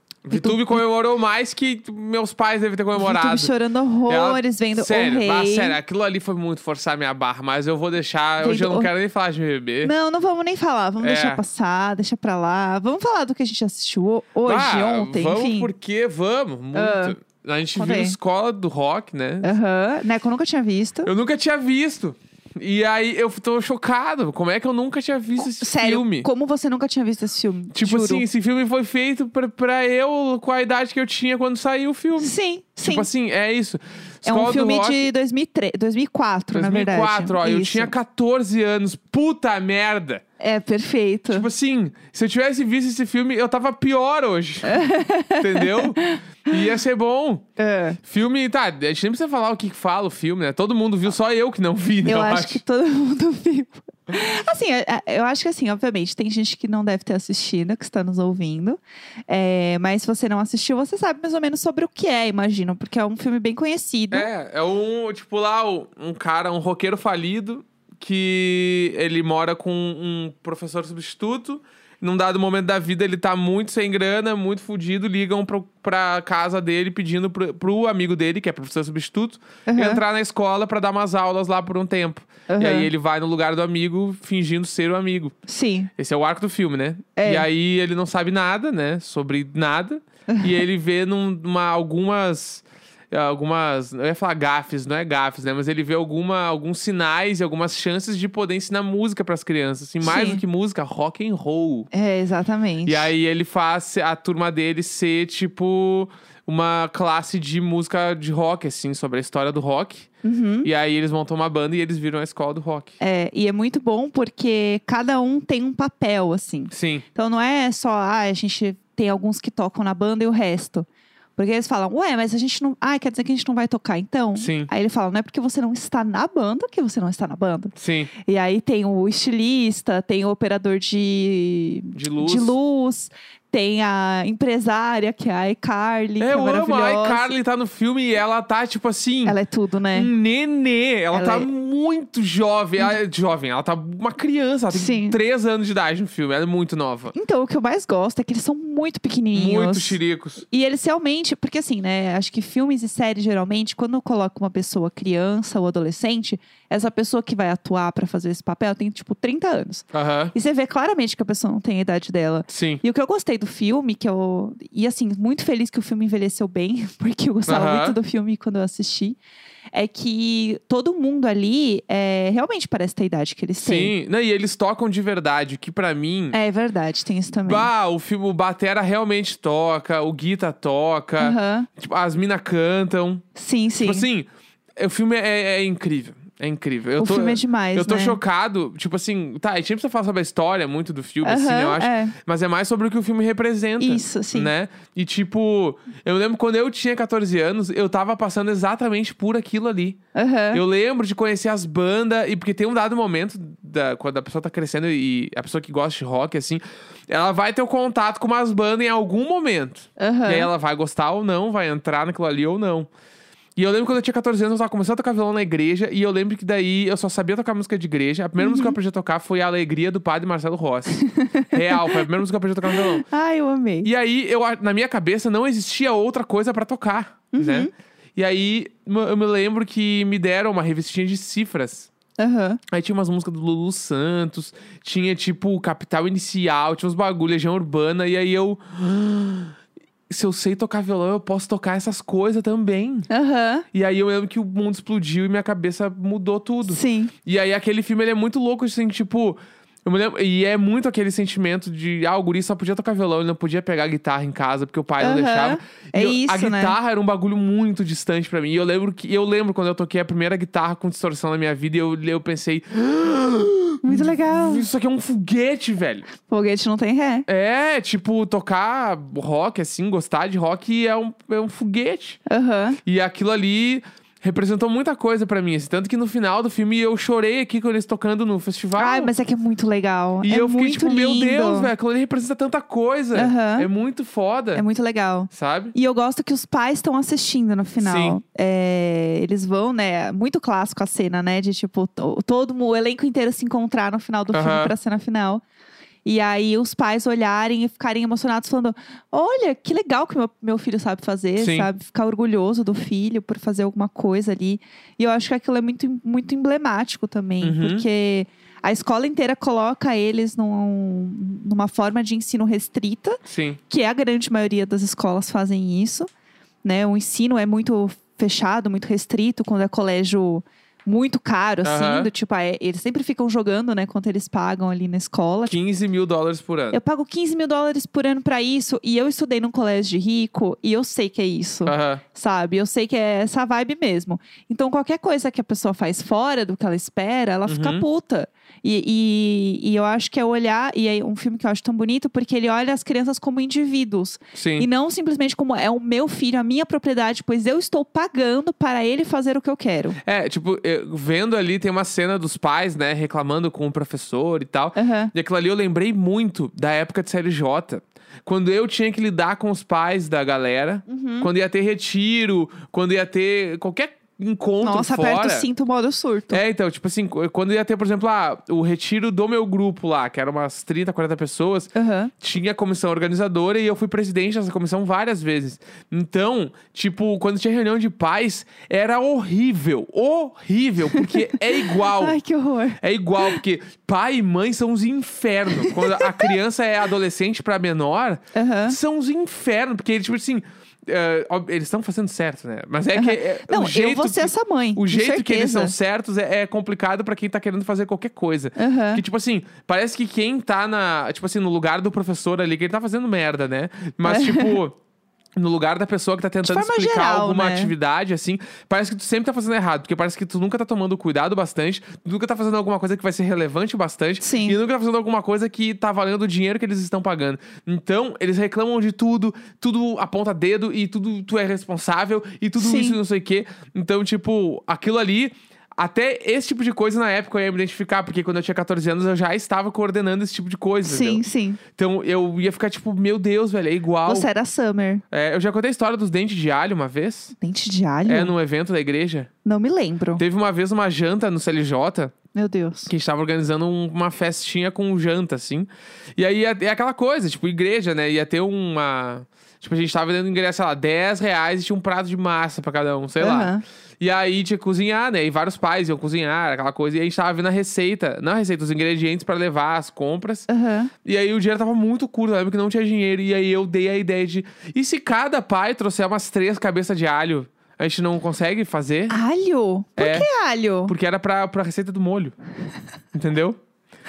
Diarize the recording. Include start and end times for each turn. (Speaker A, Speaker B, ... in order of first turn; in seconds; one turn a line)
Speaker A: 0.2-3.5
Speaker B: 0.3-0.8
Speaker B: 3.0-5.8
Speaker A: 4.1-9.9
Speaker B: 8.4-8.9
Speaker B: 9.8-15.7
Speaker A: 11.0-11.4
Speaker A: 14.4-19.5
Speaker B: 16.7-17.1
Speaker B: 17.7-18.2
Speaker B: 19.4-21.1
Speaker A: 21.0-26.3
Speaker B: 25.4-28.2
Speaker A: 27.7-35.1
Speaker B: 32.2-33.1
Speaker B: 34.2-37.9
Speaker A: 36.5-40.2
Speaker B: 40.4-41.5
Speaker A: 41.3-44.8
Speaker B: 44.6-46.5
Speaker A: 45.4-47.4
Speaker B: 47.6-48.0
Speaker A: 48.0-52.6
Speaker B: 52.0-64.3
Speaker A: 64.1-85.3
Speaker B: 79.7-80.0
Speaker B: 82.5-82.9
Speaker B: 85.5-85.9
Speaker A: 86.0-101.9
Speaker B: 87.2-87.5
Speaker B: 90.3-90.6
Speaker B: 100.0-100.4
Speaker B: 101.9-103.1
Speaker A: 102.8-110.1
Speaker B: 110.2-110.7
Speaker A: 110.6-112.9
Speaker B: 113.0-127.7
Speaker A: 116.7-117.0
Speaker A: 124.4-124.7
Speaker A: 127.8-128.1
Speaker B: 128.2-137.3
Speaker A: 131.9-132.6
Speaker A: 136.2-139.4
Speaker B: 139.2-140.1
Speaker A: 139.9-147.1
Speaker B: 141.1-141.5
Speaker B: 144.7-145.2
Speaker B: 147.1-150.0
Speaker A: 149.3-150.4
Speaker B: 150.5-169.2
Speaker A: 159.9-160.3
Speaker A: 162.5-162.8
Speaker A: 167.5-168.0
Speaker B: 169.7-173.9
Speaker A: 173.6-176.4
Speaker B: 176.3-177.7
Speaker A: 177.4-183.2
Speaker B: 181.2-181.7
Speaker B: 183.3-184.1
Speaker A: 183.8-200.0
Speaker B: 187.0-188.2
Speaker B: 191.2-192.2
Speaker B: 193.8-194.5
Speaker B: 200.1-200.6
Speaker A: 200.5-212.9
Speaker B: 210.0-210.5
Speaker A: 213.6-223.1
Speaker B: 218.4-218.8
Speaker B: 220.9-222.0
Speaker B: 222.7-223.9
Speaker A: 223.8-231.9
Speaker B: 227.3-227.7
Speaker B: 232.2-232.6
Speaker A: 232.7-239.5
Speaker A: 240.1-243.1
Speaker B: 243.1-243.7
Speaker A: 243.7-266.1
Speaker B: 246.7-247.1
Speaker B: 255.0-256.7
Speaker B: 263.8-264.6
Speaker B: 266.2-267.2
Speaker A: 267.3-272.2
Speaker B: 272.3-272.8
Speaker A: 272.8-279.1
Speaker B: 278.8-281.7
Speaker A: 280.2-284.6
Speaker B: 283.1-283.7
Speaker B: 284.5-295.4
Speaker A: 285.3-285.7
Speaker A: 287.8-288.2
Speaker A: 294.3-294.7
Speaker B: 296.0-316.1
Speaker A: 301.4-301.7
Speaker A: 307.4-307.9
Speaker A: 313.2-313.6
Speaker B: 316.6-325.6
Speaker A: 321.6-322.1
Speaker A: 325.5-326.8
Speaker B: 326.7-350.0
Speaker A: 331.6-332.0
Speaker A: 337.4-337.8
Speaker A: 344.3-344.7
Speaker A: 350.0-365.5
Speaker B: 354.8-355.1
Speaker B: 360.9-361.3
Speaker B: 364.6-366.4
Speaker A: 366.3-382.2
Speaker B: 371.7-372.1
Speaker B: 380.9-383.4
Speaker A: 382.8-404.8
Speaker B: 385.5-386.3
Speaker B: 388.3-388.8
Speaker B: 392.9-395.7
Speaker B: 398.6-399.0
Speaker B: 404.0-404.6
Speaker A: 405.4-434.3
Speaker B: 406.4-407.7
Speaker B: 414.2-414.6
Speaker B: 422.6-423.0
Speaker B: 430.8-431.6
Speaker B: 434.1-435.0
Speaker A: 435.1-437.3
Speaker B: 437.4-438.3
Speaker A: 438.1-439.3
Speaker B: 439.4-440.2
Speaker A: 440.2-442.1
Speaker B: 442.3-442.9
Speaker A: 442.9-460.4
Speaker B: 453.2-453.6
Speaker B: 460.5-460.9
Speaker A: 461.0-469.2
Speaker B: 469.1-470.9
Speaker A: 470.0-470.3
Speaker A: 470.9-472.3
Speaker A: 473.1-473.6